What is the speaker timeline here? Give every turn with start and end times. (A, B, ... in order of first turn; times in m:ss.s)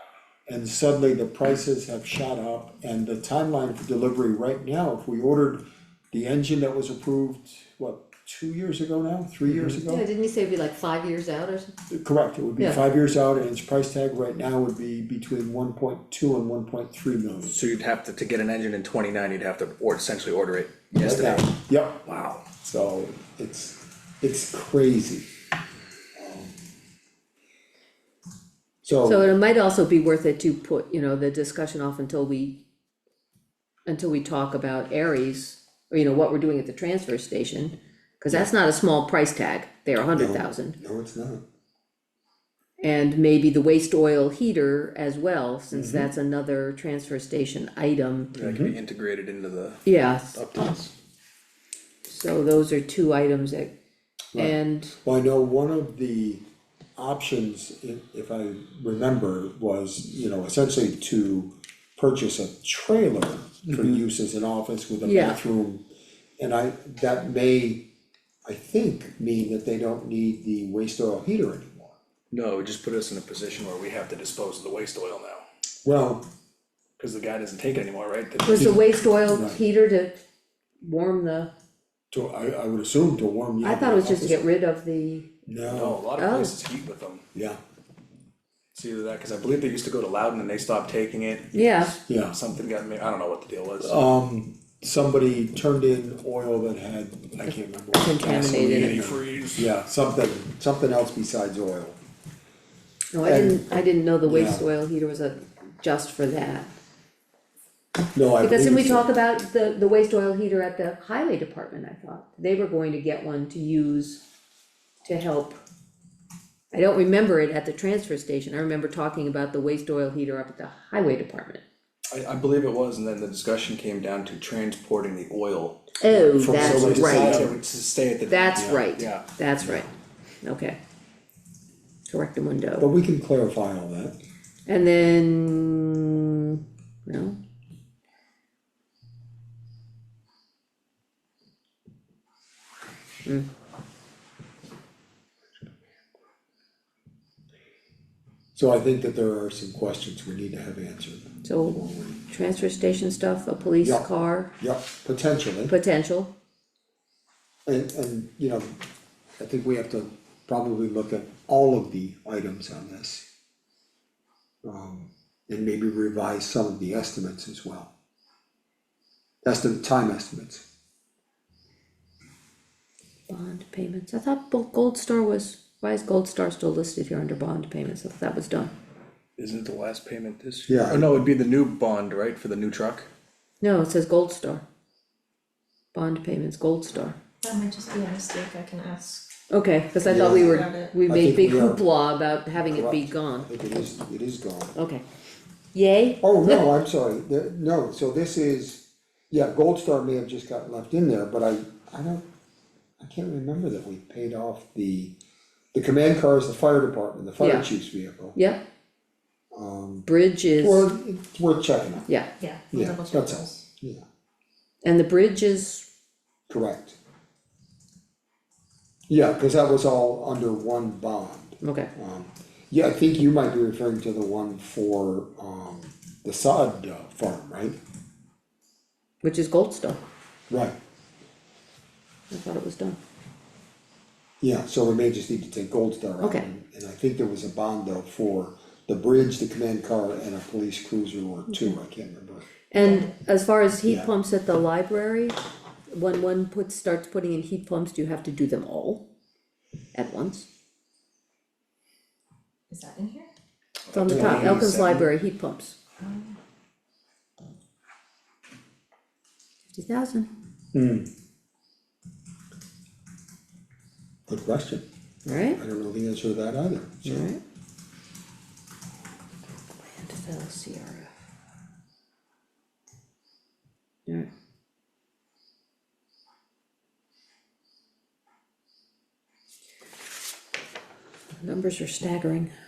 0:00.4-0:10.0 A
0:09.9-0:11.7 B
0:11.9-0:17.6 A
0:17.5-0:22.4 C
0:20.9-0:22.0 A
0:22.6-0:25.3 A
0:26.1-0:26.6 A
0:28.8-0:29.3 A
0:29.0-0:32.6 B
0:33.9-0:40.8 B
0:40.1-0:41.4 A
0:42.8-0:48.3 B
0:45.7-0:46.1 A
0:48.3-0:50.9 C
0:48.4-0:48.8 A
0:49.8-0:50.4 B
0:52.1-0:53.7 B
0:54.3-0:56.4 A
0:54.3-0:55.0 B
0:57.0-1:05.8 A
1:03.7-1:04.0 C
1:05.0-1:05.4 B
1:06.4-1:07.8 A
1:08.4-1:12.0 A
1:12.3-1:15.4 C
1:15.8-1:16.2 A
1:17.0-1:18.8 C
1:18.4-1:20.2 B
1:18.5-1:19.6 A
1:20.8-1:21.5 B
1:22.1-1:24.4 A
1:23.6-1:25.3 B
1:25.5-1:26.0 A
1:25.6-1:27.2 C
1:26.2-1:26.6 B
1:27.3-1:27.6 A
1:28.7-1:34.0 C
1:31.5-1:32.0 B
1:32.1-1:32.4 A
1:33.8-1:42.0 A
1:37.4-1:39.0 B
1:38.3-1:39.7 C
1:43.1-1:46.7 B
1:43.2-1:43.6 A
1:44.2-1:44.6 A
1:48.1-1:49.1 A
1:48.4-1:54.2 B
1:55.0-1:55.6 B
1:56.7-2:01.6 B
2:02.1-2:09.2 C
2:06.0-2:07.5 B
2:06.3-2:07.6 A
2:08.3-2:09.9 B
2:10.4-2:10.8 B
2:12.1-2:12.9 B
2:12.8-2:14.2 A
2:14.6-2:17.4 B
2:28.5-2:32.2 A
2:31.4-2:34.5 B
2:34.6-2:35.7 A
2:35.7-2:36.3 B
2:37.6-2:38.8 A
2:39.4-2:43.2 A
2:44.6-2:47.9 A
2:49.4-2:50.6 A
2:53.3-2:58.7 B
2:59.4-3:03.1 C
3:00.7-3:01.1 A
3:03.6-3:04.6 B
3:05.9-3:07.2 B
3:07.4-3:09.3 D
3:09.5-3:13.6 B
3:10.0-3:11.8 A
3:10.3-3:10.9 D
3:12.6-3:14.8 A
3:14.7-3:15.0 B
3:15.7-3:16.6 B
3:16.2-3:22.2 A
3:23.0-3:25.1 A
3:25.7-3:28.4 A
3:27.4-3:27.7 B
3:28.3-3:28.6 B
3:29.5-3:32.1 A
3:30.0-3:30.9 B
3:32.4-3:33.6 D
3:32.7-3:34.0 A
3:34.8-3:35.8 B
3:36.5-3:37.0 A
3:39.1-3:47.8 A
3:41.6-3:41.9 B
3:49.2-3:50.0 B
3:50.5-3:50.8 A
3:52.3-3:53.0 B
3:54.4-4:02.5 A
3:56.2-3:56.5 B
4:01.5-4:01.8 B
4:02.7-4:05.4 B
4:02.7-4:03.1 D
4:05.9-4:09.0 B
4:09.9-4:10.4 B
4:12.7-4:13.3 D
4:13.9-4:15.1 C
4:13.9-4:15.8 B
4:14.0-4:14.6 A
4:16.0-4:16.4 D
4:19.7-4:20.3 B
4:20.7-4:21.1 A
4:24.3-4:24.8 A
4:25.2-4:25.6 B
4:25.5-4:27.3 A
4:27.0-4:27.4 B
4:29.8-4:31.1 B
4:41.4-4:42.5 B